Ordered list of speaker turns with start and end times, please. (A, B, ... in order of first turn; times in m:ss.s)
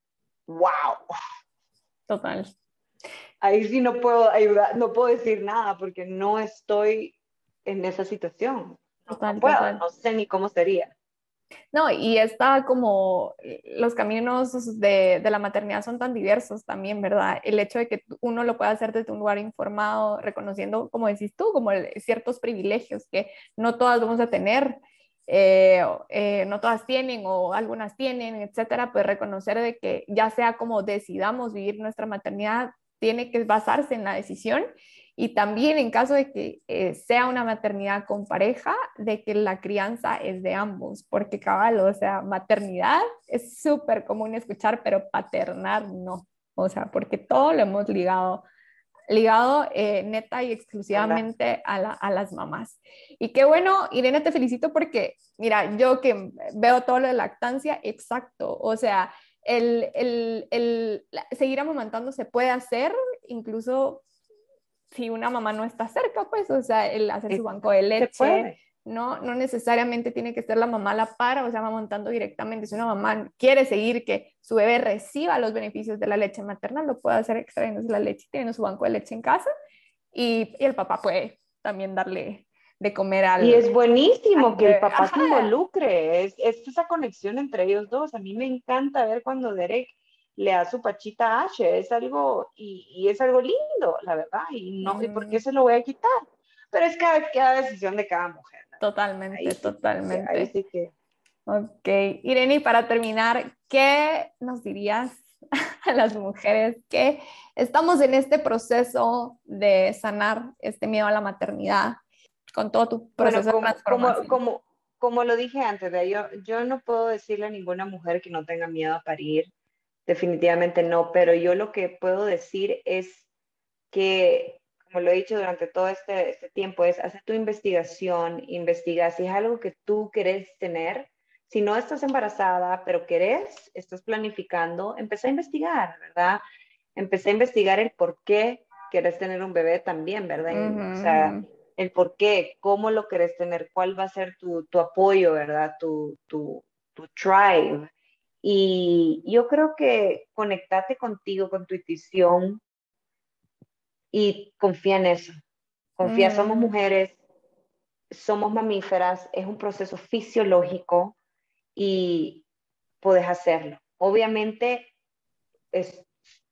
0:00.5-0:01.0 A
0:02.1-0:02.5 B
0:03.4-0:10.9 A
0:09.1-0:09.8 B
0:11.7-0:48.4 B
0:49.1-1:04.0 B
0:50.9-0:51.2 A
1:04.9-1:19.5 B
1:07.3-1:08.5 A
1:20.1-1:23.7 B
1:23.4-1:36.2 A
1:24.4-1:25.5 B
1:34.8-1:35.4 B
1:36.7-1:38.8 A
1:38.8-1:40.5 B
1:39.3-1:40.9 A
1:41.5-1:45.3 B
1:45.8-1:52.0 B
1:52.5-1:54.4 B
1:53.2-1:59.5 A
2:00.1-2:03.2 A
2:03.9-2:16.4 A
2:17.0-2:27.9 A
2:20.5-2:21.5 B
2:28.4-2:32.6 A
2:34.1-2:35.4 A
2:36.0-2:37.2 A
2:36.0-2:36.7 B
2:38.1-2:41.2 A
2:41.7-2:42.4 A
2:43.0-2:44.9 A
2:45.7-2:46.1 A